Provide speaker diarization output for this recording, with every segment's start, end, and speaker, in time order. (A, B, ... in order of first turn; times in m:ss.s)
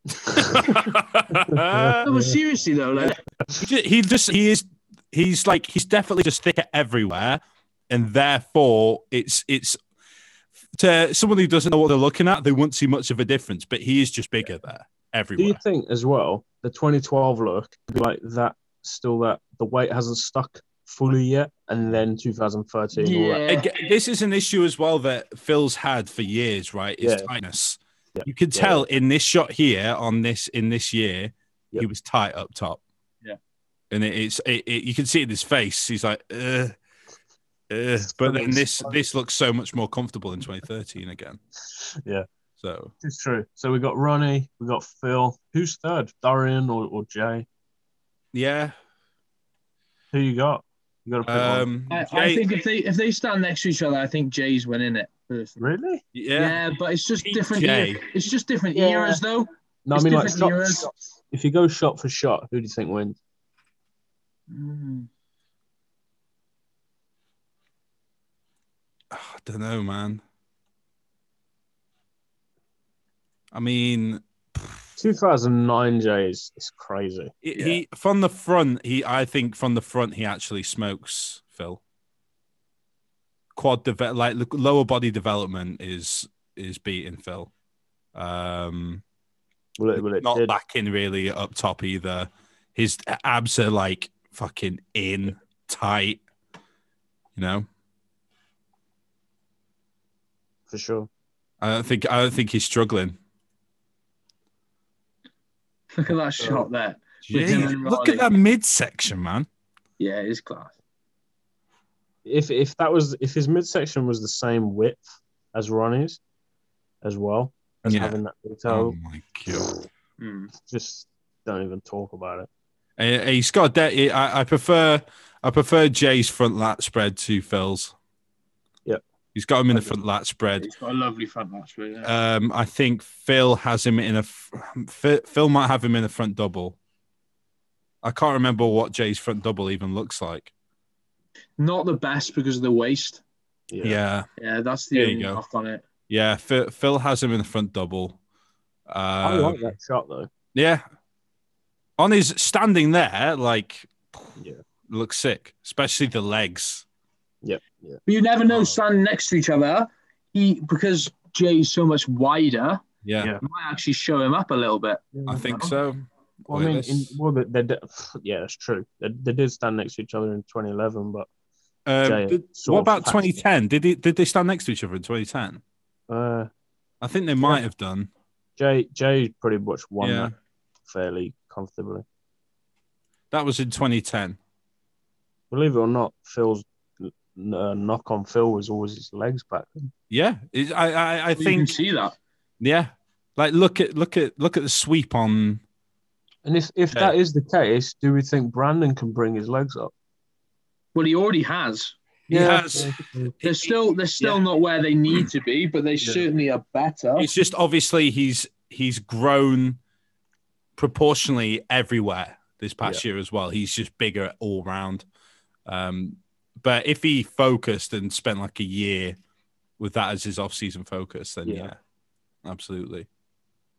0:00.2-0:00.7 A
0:00.3-0:02.1 B
0:01.5-0:02.4 A
0:02.0-0:03.2 C
0:03.0-0:03.5 A
0:03.5-0:09.8 B
0:10.7-0:15.6 B
0:15.4-0:23.4 A
0:22.9-0:23.7 C
0:23.5-0:32.8 B
0:27.0-0:27.3 A
0:28.1-0:28.8 A
0:33.9-0:36.8 B
0:37.7-0:41.4 B
0:38.0-0:39.0 A
0:41.8-0:42.2 A
0:42.6-0:42.9 B
0:43.0-0:47.4 A
0:48.3-0:48.8 B
0:50.1-0:51.7 A
0:51.2-0:52.4 B
0:51.9-0:55.6 C
0:55.6-0:56.0 A
0:56.1-0:56.6 B
0:56.3-1:00.9 C
0:57.2-0:58.0 B
0:58.7-0:59.2 A
0:59.8-1:03.2 A
1:04.5-1:05.1 C
1:09.1-1:10.2 B
1:13.5-1:14.8 B
1:15.0-1:17.3 A
1:17.4-1:21.8 B
1:23.6-1:27.5 B
1:28.1-1:29.0 B
1:29.8-1:30.6 A
1:30.0-1:36.2 B
1:37.4-1:37.7 B
1:40.7-1:41.1 A
1:41.6-1:43.2 B
1:45.9-1:48.3 C
1:46.4-1:46.7 A
1:47.2-1:49.5 B
1:50.0-1:50.7 C
1:52.2-1:56.2 A
1:57.0-1:59.0 A
1:57.8-1:59.7 B
1:59.5-1:59.8 A
2:00.2-2:00.5 C
2:00.6-2:02.5 A
2:03.0-2:07.9 B
2:09.3-2:10.7 B
2:10.6-2:12.1 C
2:12.0-2:16.8 B
2:18.0-2:20.5 B
2:21.6-2:23.2 C
2:23.7-2:24.0 A
2:23.8-2:24.3 B
2:24.4-2:25.8 C
2:24.9-2:25.4 B
2:26.1-2:28.2 B
2:28.9-2:29.7 B
2:29.2-2:30.3 A
2:30.5-2:30.8 B
2:32.0-2:34.3 B
2:34.4-2:34.6 A
2:34.9-2:36.8 B
2:37.4-2:38.0 A
2:38.0-2:42.8 C
2:38.5-2:38.8 B
2:43.0-2:43.3 B
2:43.4-2:45.7 C
2:45.1-2:45.5 A
2:45.3-2:47.1 B
2:46.5-2:51.3 A
2:51.8-2:55.6 B
2:52.0-2:53.3 A
2:56.1-2:56.5 A
2:57.0-2:58.1 B
2:58.6-3:00.3 A
3:00.0-3:00.3 B
3:00.9-3:02.0 A
3:03.3-3:04.4 B
3:05.5-3:09.9 A
3:10.1-3:11.8 B
3:11.4-3:12.2 C
3:12.6-3:15.6 B
3:16.4-3:19.9 A
3:20.9-3:22.0 C
3:22.3-3:23.3 A
3:22.3-3:23.7 B
3:23.4-3:27.3 C
3:26.0-3:26.2 A
3:27.2-3:29.8 B
3:30.8-3:35.0 B
3:35.6-3:39.2 B
3:39.8-3:41.8 B
3:41.4-3:41.7 A
3:42.4-3:43.1 B